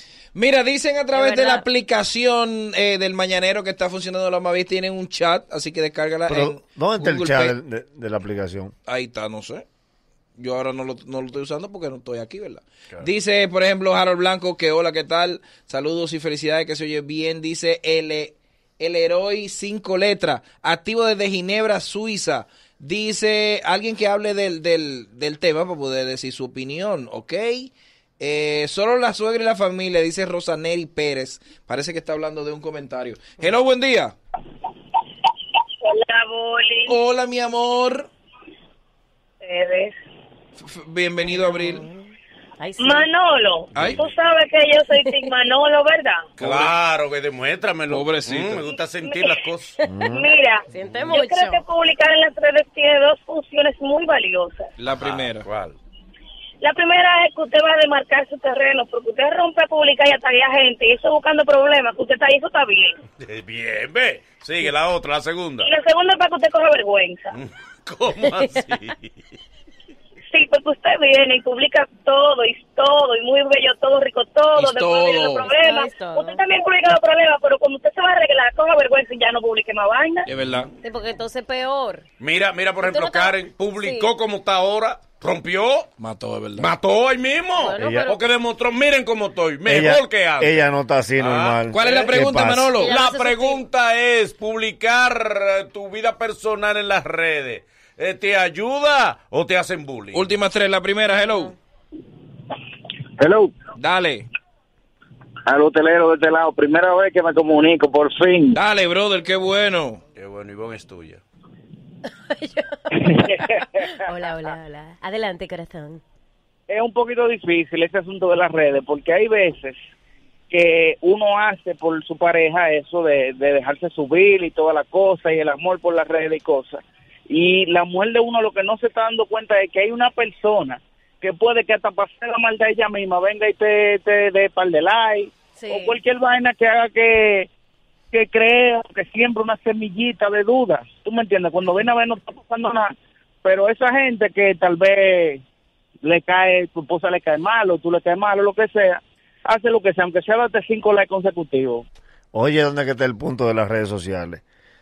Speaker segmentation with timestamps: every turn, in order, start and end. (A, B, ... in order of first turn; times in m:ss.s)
0:00.3-0:07.6 A
0:01.1-0:01.6 B
0:06.3-0:08.7 C
0:08.8-0:09.6 A
0:10.4-0:34.2 A
0:35.8-0:37.0 D
0:36.9-0:38.1 A
0:39.4-0:39.9 D
0:40.6-0:41.9 A
0:41.4-0:43.1 B
0:42.8-0:46.3 D
0:43.7-0:44.0 A
0:46.4-0:46.7 A
0:46.4-0:49.8 E
0:47.9-0:48.6 A
0:49.0-0:49.3 D
0:49.9-0:50.2 C
0:50.0-0:54.7 D
0:50.7-0:51.6 B
0:54.8-0:55.4 A
0:55.0-0:55.8 E
0:56.6-1:03.0 D
1:03.2-1:05.7 E
1:05.6-1:07.3 D
1:07.3-1:09.1 E
1:10.3-1:20.3 D
1:14.5-1:15.5 A
1:15.4-1:16.4 B
1:20.2-1:20.7 A
1:20.8-1:22.1 B
1:22.2-1:25.9 E
1:22.8-1:24.1 B
1:26.0-1:26.7 A
1:26.6-1:30.6 E
1:27.6-1:28.2 B
1:27.8-1:28.0 C
1:29.6-1:32.8 C
1:31.2-1:32.1 E
1:31.7-1:32.9 A
1:32.8-1:33.6 B
1:32.8-1:40.3 E
1:40.1-1:41.5 A
1:43.2-1:43.5 F
1:43.8-1:44.3 A
1:45.5-1:48.6 F
1:48.5-1:50.0 A
1:50.2-1:51.2 E
1:52.3-1:56.0 B
1:52.9-1:53.6 F
1:56.7-1:59.8 F
2:00.5-2:17.5 F
2:15.5-2:16.0 B
2:18.1-2:25.4 F
2:26.0-2:31.8 F
2:32.3-2:34.4 C